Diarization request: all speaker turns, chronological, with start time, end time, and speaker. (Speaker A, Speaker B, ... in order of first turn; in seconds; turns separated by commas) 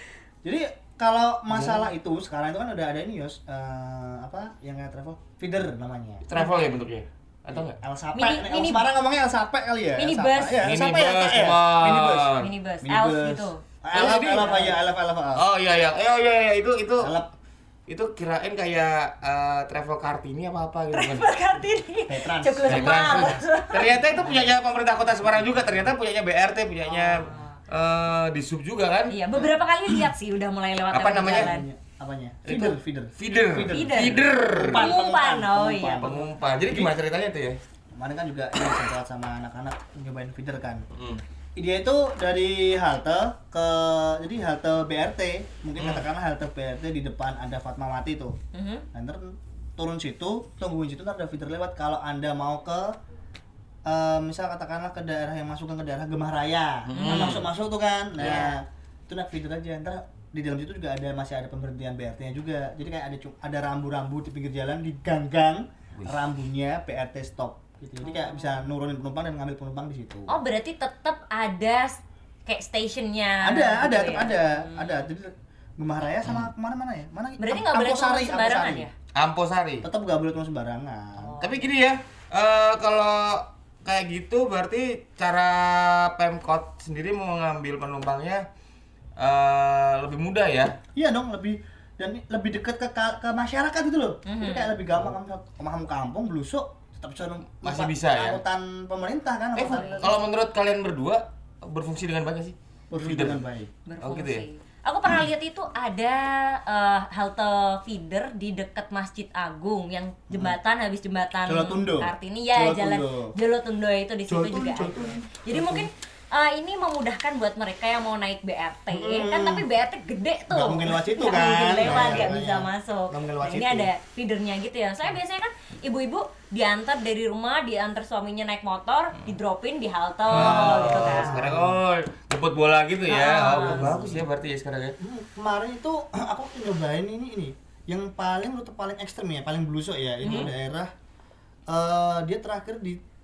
Speaker A: 0.4-6.2, Speaker B: 1.5-1.9, Speaker B: 6.3-7.8, Speaker A: 7.5-15.4, Speaker C: 8.2-8.9, Speaker C: 10.0-10.7, Speaker B: 10.6-12.5, Speaker C: 12.4-13.6, Speaker B: 13.9-14.8, Speaker B: 15.4-17.2, Speaker A: 17.0-17.3, Speaker B: 17.9-21.3, Speaker C: 20.9-23.9, Speaker A: 22.1-23.4, Speaker B: 22.7-29.1, Speaker A: 24.2-24.5, Speaker C: 26.9-27.6, Speaker C: 29.1-31.7, Speaker B: 30.9-31.5, Speaker A: 31.2-36.9, Speaker B: 32.5-34.9, Speaker C: 33.7-36.0, Speaker B: 36.0-37.6, Speaker A: 38.0-40.9, Speaker B: 41.0-41.2, Speaker A: 41.6-48.4, Speaker B: 45.8-46.0, Speaker C: 48.5-48.9, Speaker A: 48.9-53.0, Speaker A: 53.9-70.4, Speaker B: 56.9-57.5, Speaker C: 56.9-57.4, Speaker C: 58.2-58.6, Speaker C: 68.1-68.5, Speaker C: 70.3-75.1, Speaker A: 73.4-78.8, Speaker C: 77.4-78.9, Speaker B: 79.2-79.9, Speaker A: 79.8-81.4, Speaker C: 81.2-81.7, Speaker B: 81.4-88.4, Speaker B: 89.2-90.8, Speaker A: 91.0-100.1, Speaker C: 94.3-94.8, Speaker B: 97.6-98.4, Speaker B: 99.6-103.4, Speaker A: 102.9-103.7, Speaker C: 103.9-131.4, Speaker B: 104.0-104.5, Speaker A: 110.3-110.6, Speaker A: 111.5-113.3, Speaker A: 114.3-115.9, Speaker A: 118.9-119.7, Speaker A: 120.5-123.9, Speaker B: 121.8-122.3, Speaker A: 130.3-131.8, Speaker B: 130.3-135.0, Speaker C: 133.1-134.1, Speaker A: 133.6-134.2, Speaker A: 135.0-140.9, Speaker C: 140.2-140.5, Speaker A: 141.7-143.0